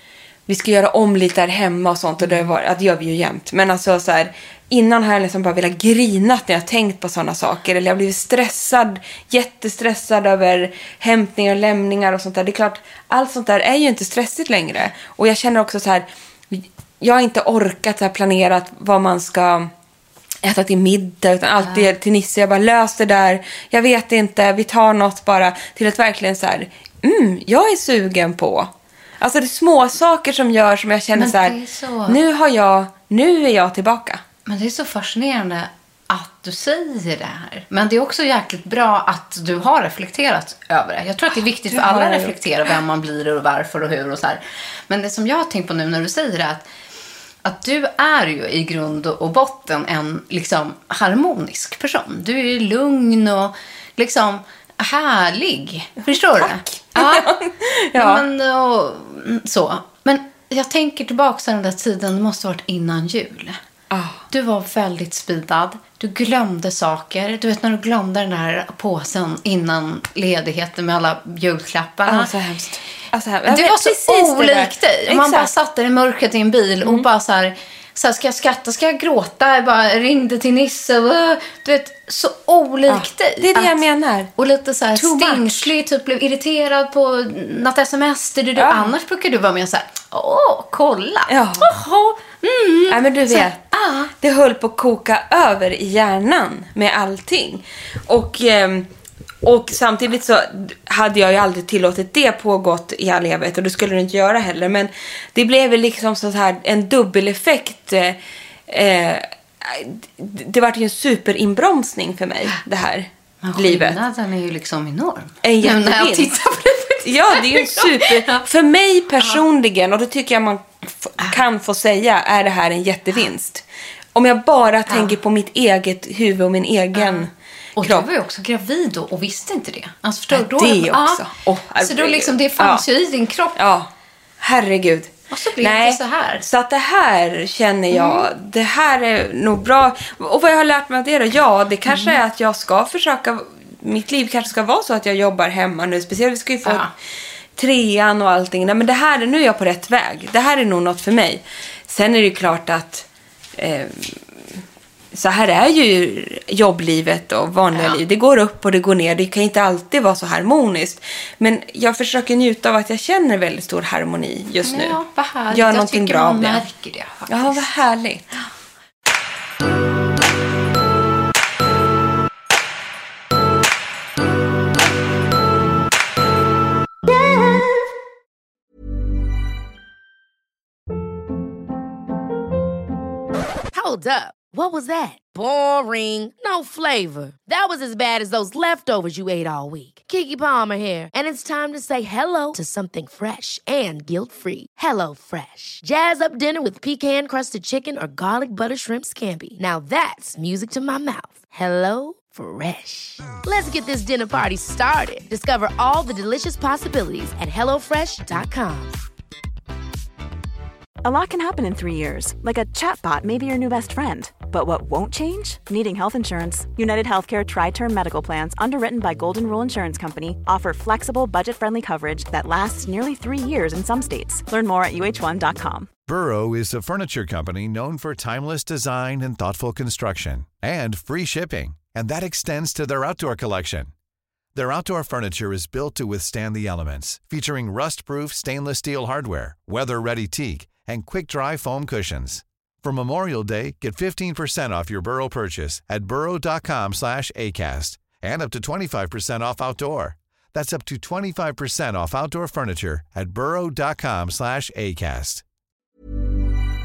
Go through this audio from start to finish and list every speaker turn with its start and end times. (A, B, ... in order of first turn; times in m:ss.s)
0:00.5-0:19.7 A
0:20.4-0:34.2 A
0:31.2-0:32.2 B
0:34.5-0:46.6 B
0:41.7-0:42.4 A
0:47.4-0:57.3 B
0:56.4-0:58.2 A
0:58.0-1:03.6 B
1:03.9-1:04.2 A
1:04.3-1:12.3 B
1:12.1-1:15.5 A
1:13.5-1:23.8 B
1:22.9-1:24.3 A
1:24.4-1:34.1 B
1:25.0-1:25.7 A
1:28.6-1:28.9 A
1:31.3-1:31.7 A
1:32.9-1:38.9 A
1:39.4-1:54.0 A
1:53.4-1:58.4 B
1:55.4-1:56.4 A
1:57.0-2:03.6 A
2:04.2-2:08.1 A
2:04.9-2:05.2 B
2:07.0-2:11.2 B
2:10.3-2:12.8 A
2:11.8-2:13.6 B
2:13.6-2:13.9 A
2:14.4-2:26.9 A
2:15.3-2:16.4 B
2:17.9-2:18.3 B
2:21.9-2:22.2 B
2:26.6-2:26.9 B
2:27.6-2:33.1 A
2:33.6-2:34.2 A
2:35.1-2:45.0 A
2:37.7-2:38.0 B
2:44.6-2:47.7 B
2:45.5-2:46.6 A
2:47.3-2:48.3 A
3:03.7-3:29.0 C
3:31.0-3:45.9 D
3:46.1-3:53.9 E
3:54.6-4:15.4 E